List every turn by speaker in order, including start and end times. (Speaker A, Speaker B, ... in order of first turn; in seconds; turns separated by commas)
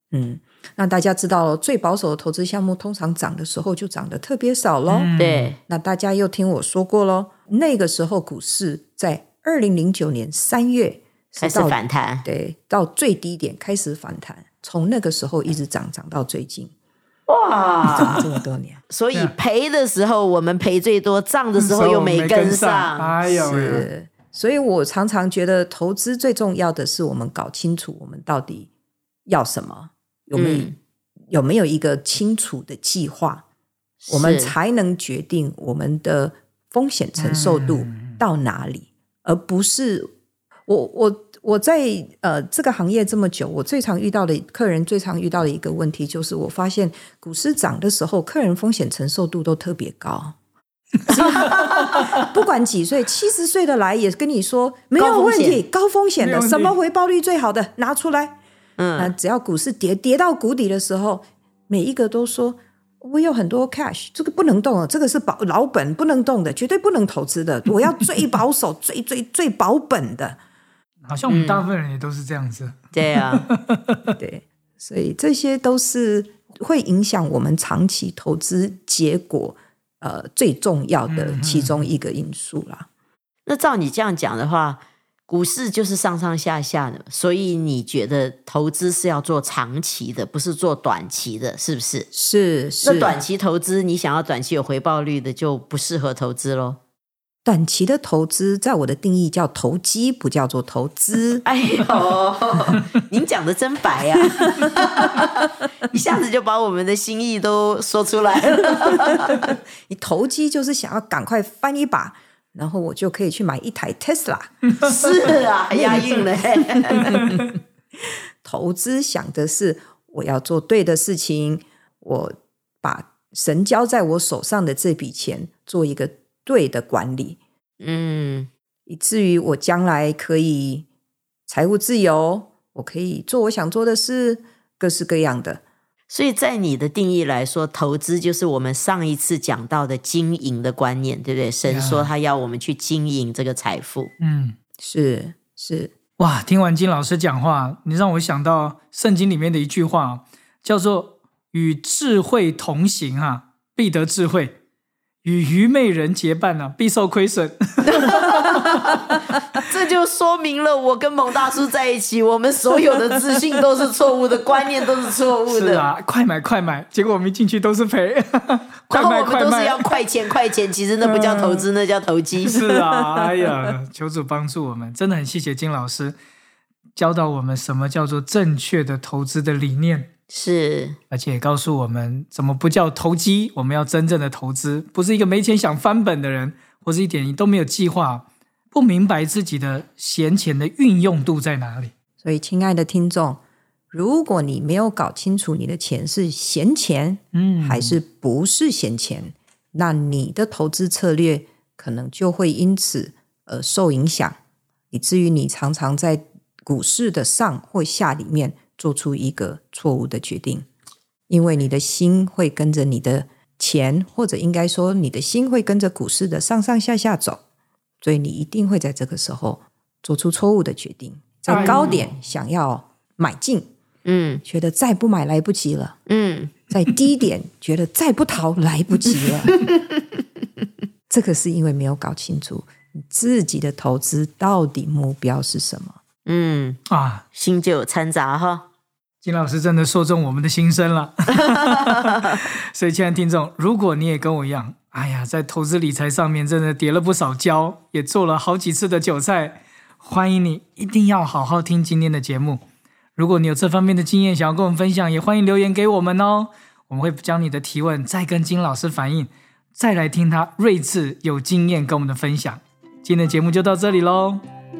Speaker A: 0.1-5.1, Speaker B: 4.9-5.5, Speaker C: 5.2-5.6, Speaker A: 5.7-16.7, Speaker C: 11.4-12.2, Speaker C: 17.3-18.2, Speaker A: 17.9-18.8, Speaker C: 18.9-23.2, Speaker B: 21.6-23.9, Speaker A: 23.3-28.7, Speaker A: 29.2-30.7, Speaker C: 30.3-30.8, Speaker A: 31.3-33.4, Speaker C: 34.0-34.5, Speaker A: 34.1-40.1, Speaker B: 37.2-38.2, Speaker A: 40.7-50.3, Speaker A: 51.1-58.4, Speaker C: 51.1-52.1, Speaker C: 55.0-55.6, Speaker B: 56.2-56.8, Speaker C: 58.8-59.1, Speaker A: 59.0-70.4, Speaker B: 71.0-74.0, Speaker C: 71.3-71.7, Speaker C: 72.9-73.4, Speaker A: 74.2-82.9, Speaker B: 81.1-81.9, Speaker C: 83.5-92.1, Speaker A: 92.1-93.2, Speaker C: 92.8-96.8, Speaker A: 97.4-101.4, Speaker C: 101.4-109.5, Speaker A: 104.4-104.7, Speaker A: 109.3-114.7, Speaker C: 114.8-117.1, Speaker A: 115.7-116.2, Speaker B: 117.0-117.5, Speaker A: 117.0-117.5, Speaker A: 118.4-127.4, Speaker C: 127.8-128.5, Speaker A: 128.9-130.9, Speaker A: 131.5-135.6, Speaker C: 136.1-144.1, Speaker B: 141.6-142.1, Speaker B: 144.2-144.5, Speaker A: 144.8-145.9, Speaker B: 146.2-154.6, Speaker B: 155.2-159.6, Speaker C: 157.8-165.9, Speaker B: 165.5-169.8, Speaker C: 168.9-172.6, Speaker B: 171.0-171.6, Speaker B: 172.4-176.1, Speaker A: 172.8-173.5, Speaker B: 176.9-180.1, Speaker C: 180.3-180.9, Speaker B: 181.1-191.9, Speaker A: 192.2-204.4, Speaker B: 197.3-198.0, Speaker A: 204.9-210.7, Speaker A: 211.3-217.4, Speaker A: 218.0-223.7, Speaker B: 221.5-222.0, Speaker C: 221.5-222.0, Speaker C: 224.0-224.4, Speaker A: 224.4-225.9, Speaker C: 226.1-226.5, Speaker A: 226.7-229.6, Speaker C: 229.2-229.9, Speaker A: 231.1-235.9, Speaker C: 236.2-236.8, Speaker B: 236.9-237.2, Speaker C: 237.3-238.6, Speaker B: 239.2-252.6, Speaker C: 241.5-242.4, Speaker B: 253.1-264.4